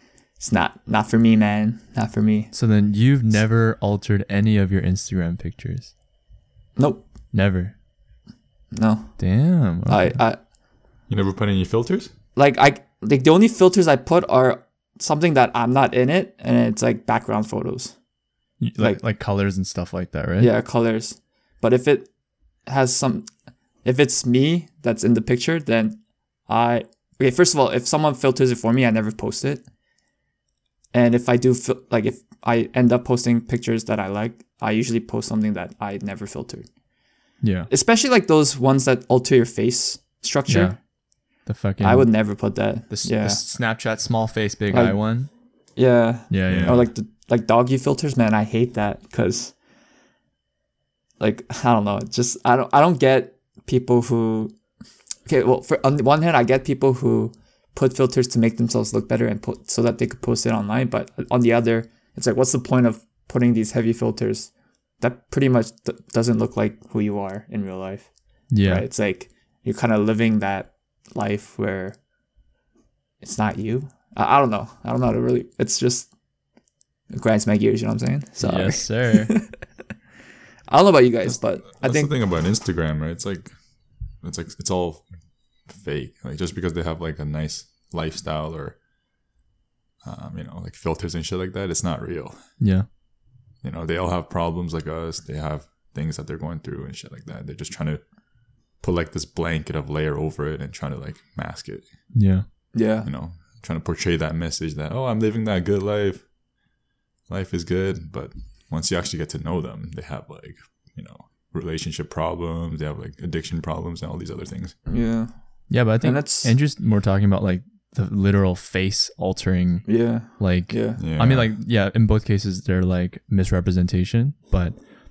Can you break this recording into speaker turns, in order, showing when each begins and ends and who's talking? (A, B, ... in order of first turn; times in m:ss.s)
0:00.4-0:02.5 A
0:02.5-0:05.9 B
0:06.8-0:07.0 A
0:07.3-0:07.7 B
0:08.7-0:09.2 A
0:09.2-0:10.2 B
0:09.9-0:10.4 A
0:11.1-0:12.1 C
0:12.3-0:17.9 A
0:18.6-0:20.5 B
0:20.4-0:22.1 A
0:22.7-0:23.3 A
0:23.8-0:26.0 A
0:26.5-0:29.6 A
0:30.9-0:36.7 A
0:37.4-0:37.7 B
0:37.7-0:40.8 A
0:40.5-0:40.8 B
0:41.5-0:42.1 B
0:41.8-0:43.4 A
0:42.9-0:45.3 B
0:44.7-0:45.0 A
0:45.8-0:49.5 A
0:46.3-0:46.8 B
0:46.5-0:46.8 C
0:51.2-0:54.5 A
0:55.3-1:04.5 A
1:05.0-1:08.1 A
1:08.5-1:08.8 B
1:08.6-1:12.0 A
1:13.2-1:16.1 A
1:17.1-1:19.6 A
1:18.4-1:19.3 B
1:20.7-1:22.1 A
1:21.8-1:23.5 C
1:24.2-1:25.1 C
1:25.7-1:28.8 C
1:30.0-1:32.6 C
1:32.6-1:32.9 B
1:33.6-1:38.0 C
1:38.8-1:42.1 C
1:42.1-1:42.4 B
1:42.7-1:43.1 A
1:43.0-1:46.3 C
1:47.3-1:54.8 C
1:54.9-1:55.3 A
1:55.7-2:04.8 B
1:55.9-1:56.5 A
1:59.9-2:01.0 A
2:01.0-2:01.5 C